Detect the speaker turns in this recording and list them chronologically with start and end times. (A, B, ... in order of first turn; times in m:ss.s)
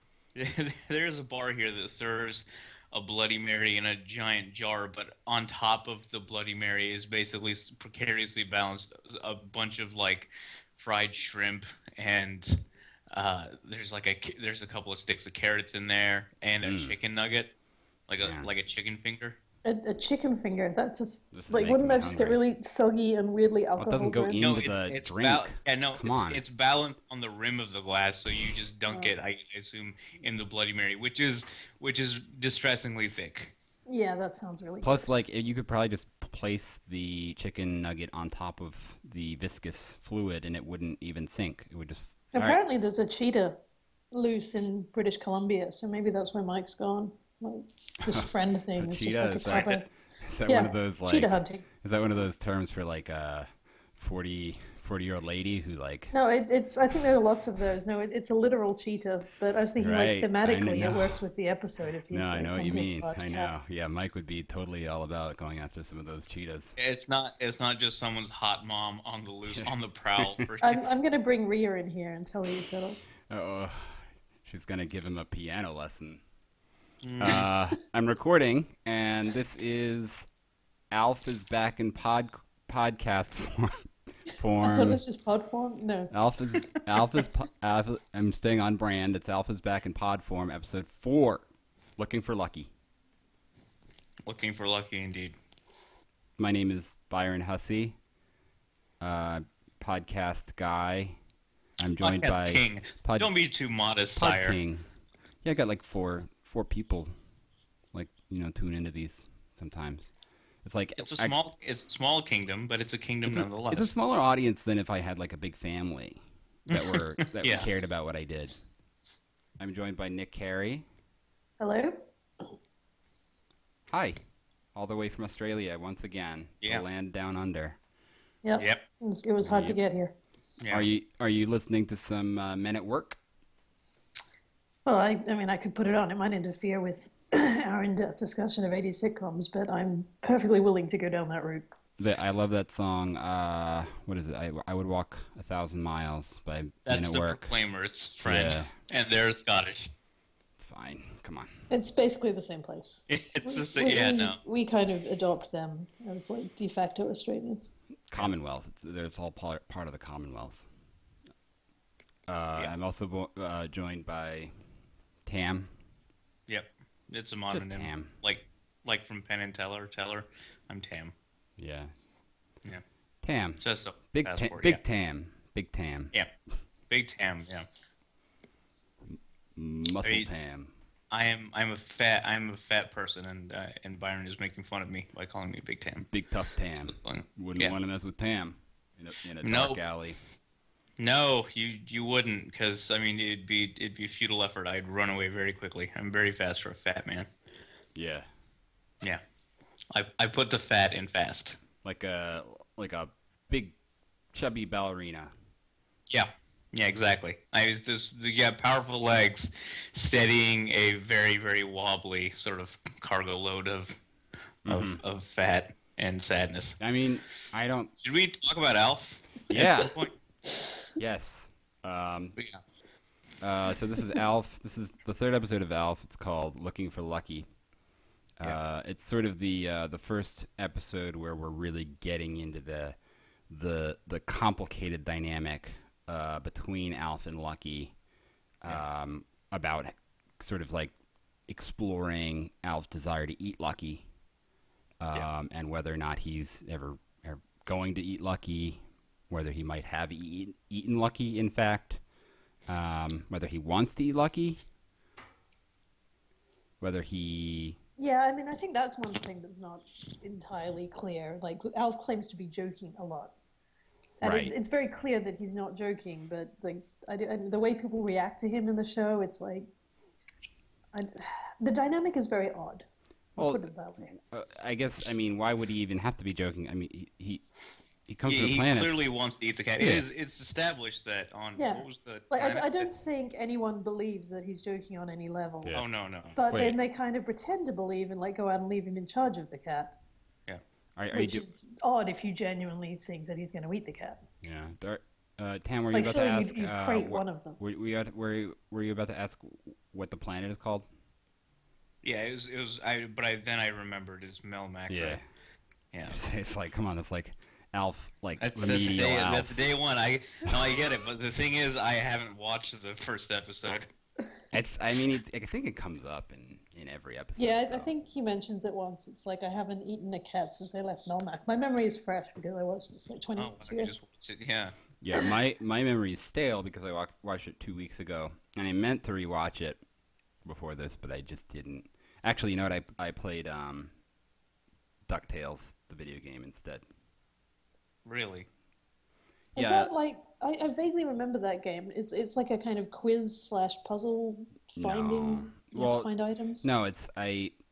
0:00.3-0:12.6 A
0:13.1-0:17.5 A
0:16.6-0:17.0 B
0:18.1-0:19.4 A
0:18.2-0:18.5 B
0:19.6-0:24.4 C
0:21.3-0:22.4 B
0:23.8-0:26.4 B
0:24.4-0:33.5 A
0:33.9-0:35.2 C
0:34.8-0:42.6 B
0:42.3-0:43.6 C
0:44.1-0:49.8 C
0:48.0-0:56.1 B
0:50.5-0:51.6 C
0:56.1-1:03.5 C
0:59.8-1:01.2 B
1:02.1-1:06.8 B
1:06.8-1:10.8 A
1:09.5-1:10.4 B
1:10.6-1:13.0 C
1:13.3-1:16.2 B
1:17.0-1:17.4 A
1:17.2-1:20.3 B
1:20.9-1:25.0 B
1:24.6-1:26.1 C
1:26.1-1:32.7 B
1:34.2-1:35.4 A
1:36.4-1:38.0 B
1:39.0-1:41.2 B
1:41.8-1:43.3 B
1:42.0-1:44.6 A
1:44.2-1:44.9 B
1:45.4-1:47.1 B
1:47.9-1:50.1 B
1:50.6-1:51.4 B
1:51.0-1:53.9 A
1:53.2-1:58.6 B
1:56.7-1:57.7 A
1:59.6-2:00.8 B
2:01.6-2:02.5 C
2:03.9-2:04.2 B
2:04.7-2:07.8 B
2:08.4-2:10.1 C
2:08.6-2:08.8 A
2:09.4-2:09.8 B
2:10.6-2:10.9 A
2:10.7-2:13.2 B
2:14.8-2:21.7 C
2:22.0-2:27.5 B
2:26.8-2:29.9 A
2:28.2-2:28.7 B
2:30.6-2:31.5 B
2:31.7-2:37.7 C
2:33.1-2:34.4 A
2:38.1-2:40.6 B
2:42.3-2:44.5 B
2:45.2-2:45.7 B
2:46.5-2:51.1 A
2:47.5-2:48.1 B
2:51.6-2:51.9 B
2:53.2-2:56.1 B
2:53.6-2:54.8 A
2:56.9-2:57.7 A
2:59.0-3:00.7 B
3:00.0-3:00.3 A
3:01.1-3:06.1 A
3:06.1-3:10.2 B
3:06.8-3:07.8 A
3:09.4-3:09.8 A
3:11.0-3:17.3 A
3:17.9-3:18.3 B
3:19.9-3:21.6 A
3:21.8-3:23.8 B
3:24.3-3:25.3 B
3:26.1-3:34.0 A
3:34.6-3:35.0 B
3:34.6-3:36.8 A
3:36.8-3:37.9 B
3:38.0-3:40.2 A
3:39.5-3:39.9 B
3:41.0-3:42.4 B
3:43.4-3:47.5 B
3:48.4-3:53.0 B
3:53.5-3:57.9 B
3:58.6-4:00.9 B
4:01.5-4:04.0 B
4:05.0-4:12.0 B
4:12.7-4:14.6 B
4:16.8-4:17.8 B
4:18.0-4:23.3 C
4:24.2-4:29.7 C
4:24.2-4:24.5 B
4:30.9-4:32.8 C
4:33.4-4:37.4 B
4:33.4-4:34.1 C
4:38.1-4:39.0 B
4:38.3-4:42.9 A
4:39.8-4:40.0 B
4:41.6-4:45.8 C
4:45.7-4:46.4 A
4:46.3-4:50.0 C
4:46.5-4:46.8 B
4:51.0-4:51.5 B
4:51.1-4:54.2 C
4:54.4-5:00.8 B
4:55.9-4:57.6 C
5:02.0-5:05.2 A
5:04.9-5:05.2 B
5:05.9-5:06.2 A
5:06.0-5:09.6 B
5:08.4-5:13.9 A
5:14.5-5:17.9 B
5:17.4-5:23.9 C
5:23.4-5:24.7 A
5:25.0-5:29.8 B
5:30.4-5:33.9 B
5:35.1-5:36.8 B
5:38.0-5:38.4 A
5:39.6-5:39.9 B
5:39.6-5:46.7 C
5:44.8-5:46.1 B
5:46.6-5:47.5 B